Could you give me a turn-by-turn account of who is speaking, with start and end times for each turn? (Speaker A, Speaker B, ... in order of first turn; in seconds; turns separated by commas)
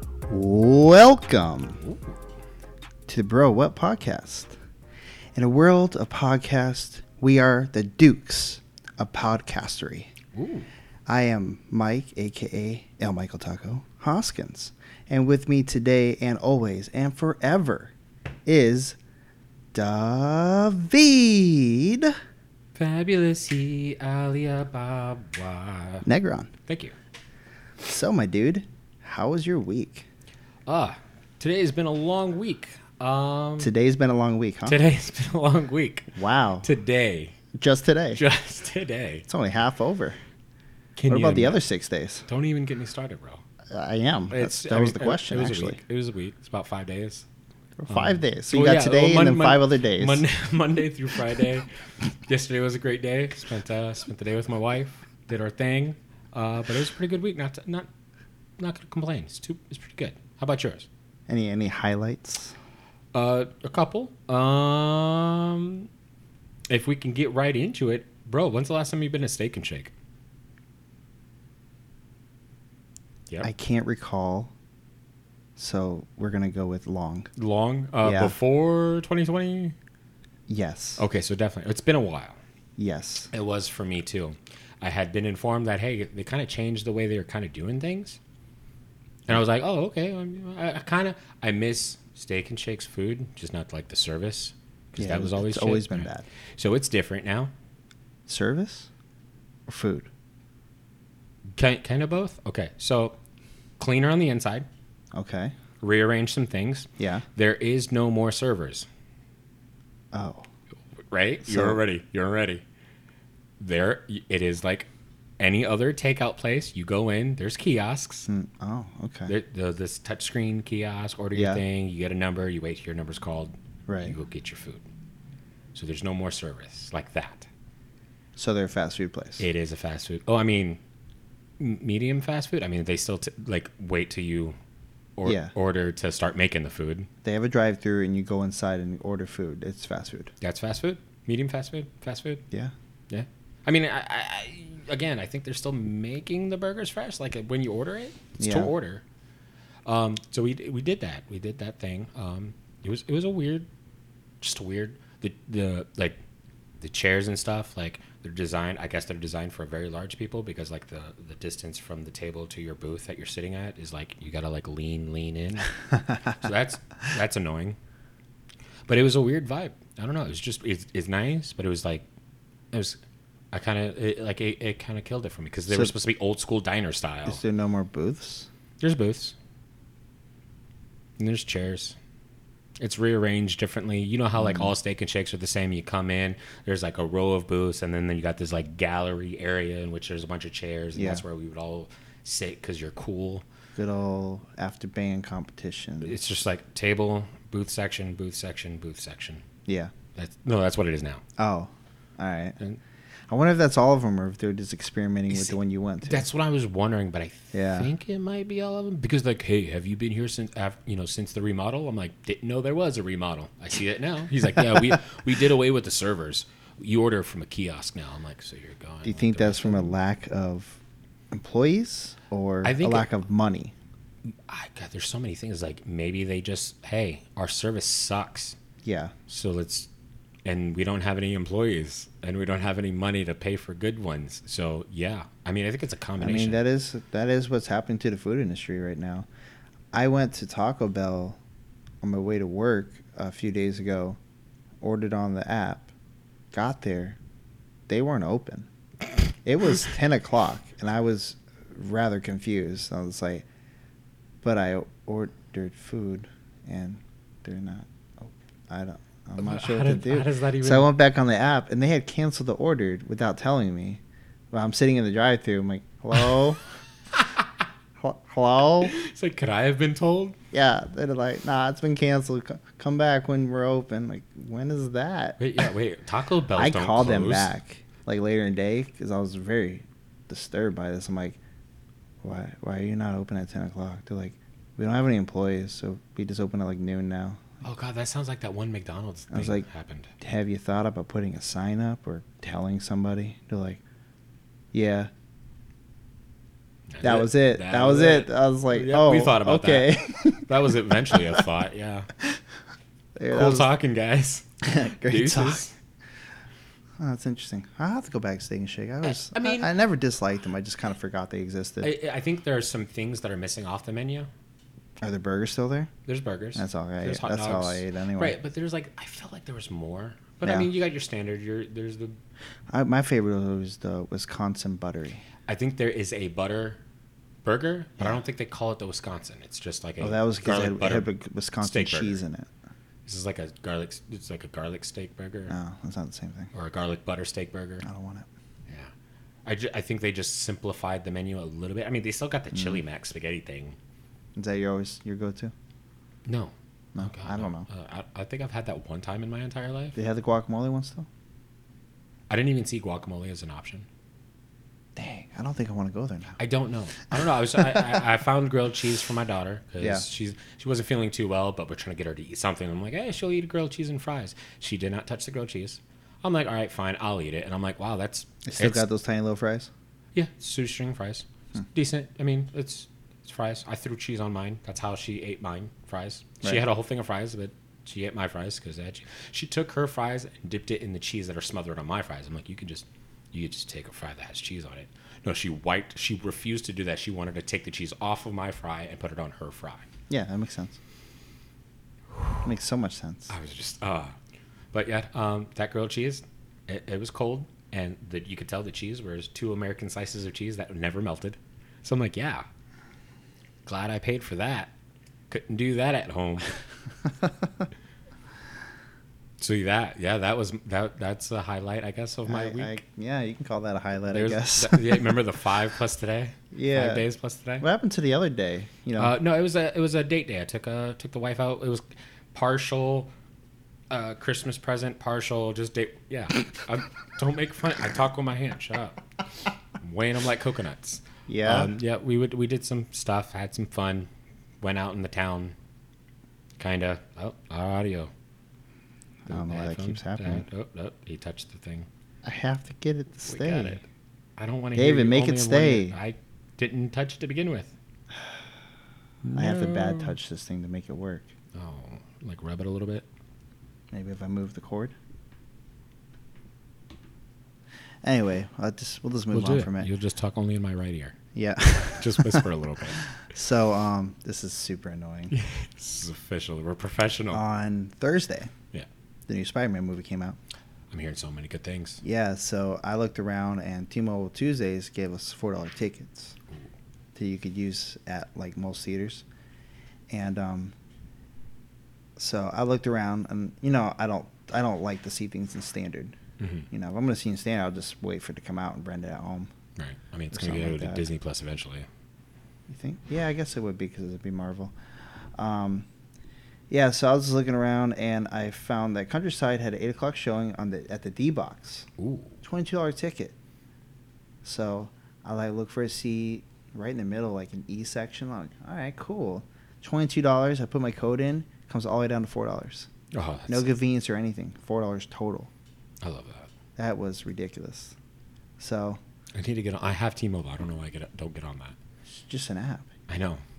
Speaker A: 0.3-1.8, Speaker A: 3.1-4.5, Speaker A: 5.3-10.1, Speaker B: 10.3-10.7, Speaker A: 11.1-17.9, Speaker A: 18.4-19.0, Speaker A: 19.7-22.2, Speaker B: 22.7-26.1, Speaker A: 26.0-26.5, Speaker B: 26.7-26.9, Speaker A: 27.8-30.1, Speaker B: 30.6-33.7, Speaker A: 33.6-34.8, Speaker B: 34.6-37.4, Speaker A: 36.1-36.7, Speaker A: 37.6-38.2, Speaker B: 38.1-39.3, Speaker A: 39.3-40.2, Speaker B: 41.0-41.6, Speaker A: 41.1-42.3, Speaker B: 42.3-43.4, Speaker A: 43.7-45.8, Speaker B: 44.3-47.2, Speaker A: 47.8-50.2, Speaker B: 47.9-51.7, Speaker B: 52.2-57.9, Speaker B: 58.6-60.9, Speaker A: 61.3-62.5, Speaker B: 63.1-65.9, Speaker B: 66.7-69.9, Speaker A: 73.4-74.5, Speaker A: 75.6-77.3, Speaker B: 77.3-79.8, Speaker A: 78.0-78.3, Speaker A: 80.5-81.0, Speaker B: 81.0-82.4, Speaker A: 82.8-83.3, Speaker B: 83.3-88.2, Speaker B: 89.3-97.5, Speaker A: 95.0-96.2, Speaker A: 98.3-98.9, Speaker A: 99.7-100.1, Speaker B: 101.5-103.2, Speaker B: 103.8-104.7, Speaker A: 105.1-105.5, Speaker B: 105.8-108.9, Speaker A: 107.0-107.2, Speaker A: 110.1-110.5, Speaker B: 111.1-112.6, Speaker A: 111.4-111.8, Speaker B: 113.6-118.3, Speaker A: 118.3-119.3, Speaker B: 119.2-124.8, Speaker A: 121.3-121.6, Speaker A: 123.9-124.1, Speaker B: 125.7-127.5, Speaker A: 128.3-129.4, Speaker B: 129.4-130.8, Speaker B: 131.6-134.6, Speaker B: 135.2-137.1, Speaker A: 135.2-135.5, Speaker A: 137.2-140.3, Speaker B: 140.4-142.4, Speaker B: 143.1-149.0, Speaker A: 148.4-148.7, Speaker B: 149.8-153.7, Speaker B: 154.4-156.2, Speaker B: 156.8-167.8, Speaker B: 168.9-172.0, Speaker B: 172.7-173.0, Speaker B: 173.5-177.4, Speaker A: 177.2-178.5, Speaker B: 178.8-179.3, Speaker B: 181.2-181.9, Speaker B: 182.8-193.4, Speaker A: 184.4-184.7, Speaker A: 190.9-191.2, Speaker A: 193.8-196.2, Speaker B: 196.0-199.4, Speaker A: 199.7-199.9, Speaker B: 200.1-201.2, Speaker A: 201.4-202.6, Speaker A: 203.3-206.2, Speaker B: 205.3-219.9, Speaker A: 207.5-207.9, Speaker A: 219.1-220.8, Speaker A: 221.3-223.7, Speaker B: 222.6-223.1, Speaker B: 224.3-228.6, Speaker A: 228.8-229.1, Speaker B: 229.3-229.9, Speaker B: 230.4-236.6, Speaker A: 236.2-239.3, Speaker A: 239.9-241.4, Speaker A: 242.0-244.2, Speaker A: 244.8-245.9, Speaker A: 246.5-247.2, Speaker A: 247.9-248.7, Speaker A: 249.4-253.4, Speaker A: 254.4-264.0, Speaker B: 259.4-260.9, Speaker A: 264.5-266.6, Speaker B: 267.1-267.5, Speaker A: 268.0-268.9, Speaker B: 268.8-270.4, Speaker A: 270.5-275.4, Speaker B: 275.4-277.5, Speaker A: 276.5-281.4, Speaker A: 282.2-287.4, Speaker B: 287.6-290.1, Speaker A: 289.3-289.6, Speaker A: 290.2-293.8, Speaker A: 294.7-295.1, Speaker B: 296.9-302.1, Speaker A: 297.0-300.5, Speaker A: 303.1-303.7, Speaker B: 303.3-305.8, Speaker A: 304.6-305.6, Speaker A: 307.0-311.9, Speaker B: 309.3-309.7, Speaker B: 311.8-314.3, Speaker A: 315.0-315.9, Speaker B: 316.1-322.1, Speaker A: 316.6-318.4, Speaker A: 320.4-320.7, Speaker A: 322.7-325.2, Speaker B: 325.5-326.8, Speaker B: 327.4-331.1, Speaker A: 330.0-332.5, Speaker B: 331.6-332.2, Speaker B: 333.1-335.6, Speaker A: 335.5-336.5, Speaker B: 336.5-337.9, Speaker A: 337.8-338.3, Speaker B: 339.4-343.8, Speaker A: 344.4-345.5, Speaker B: 346.2-350.0, Speaker A: 346.9-347.7, Speaker A: 349.9-351.1, Speaker B: 352.3-353.9, Speaker A: 354.9-356.4, Speaker B: 356.4-368.9, Speaker A: 359.8-360.0, Speaker A: 368.4-369.7, Speaker B: 370.1-389.8, Speaker A: 390.1-390.8, Speaker B: 392.1-392.4, Speaker A: 392.4-393.3, Speaker B: 393.3-394.1, Speaker B: 394.7-402.4, Speaker B: 403.6-404.7, Speaker B: 405.3-406.5, Speaker B: 409.4-412.8, Speaker A: 412.2-415.2, Speaker B: 414.1-417.6, Speaker A: 416.5-417.0, Speaker A: 417.6-419.1, Speaker B: 419.0-423.1, Speaker B: 423.9-429.0, Speaker B: 429.7-434.1, Speaker A: 431.3-431.7, Speaker B: 434.6-435.5, Speaker B: 436.6-438.1, Speaker A: 439.3-440.4, Speaker B: 439.3-441.9, Speaker A: 442.2-443.8, Speaker B: 443.3-443.8, Speaker B: 444.4-447.7, Speaker A: 444.7-445.9, Speaker B: 449.2-450.1, Speaker A: 449.3-451.3, Speaker B: 451.5-453.1, Speaker A: 453.9-454.9, Speaker A: 458.0-459.9, Speaker B: 459.3-461.2, Speaker A: 461.3-462.5, Speaker B: 461.9-463.0, Speaker A: 463.1-465.3, Speaker B: 465.3-467.4, Speaker A: 467.3-468.5, Speaker A: 469.3-470.4, Speaker B: 470.9-472.0, Speaker A: 472.0-476.4, Speaker A: 477.1-479.2, Speaker A: 480.1-480.7, Speaker A: 482.2-486.1, Speaker B: 486.4-486.7, Speaker A: 486.7-489.5, Speaker B: 489.8-491.9, Speaker A: 490.3-491.0, Speaker A: 492.7-494.7, Speaker A: 495.3-495.9, Speaker A: 496.7-501.9, Speaker B: 502.0-502.4, Speaker A: 502.4-503.3, Speaker A: 504.4-512.9, Speaker B: 513.1-513.7, Speaker A: 513.5-515.5, Speaker B: 516.0-516.5, Speaker A: 516.8-517.9, Speaker A: 518.6-519.0, Speaker B: 519.3-521.7, Speaker A: 522.1-522.9, Speaker B: 523.1-523.4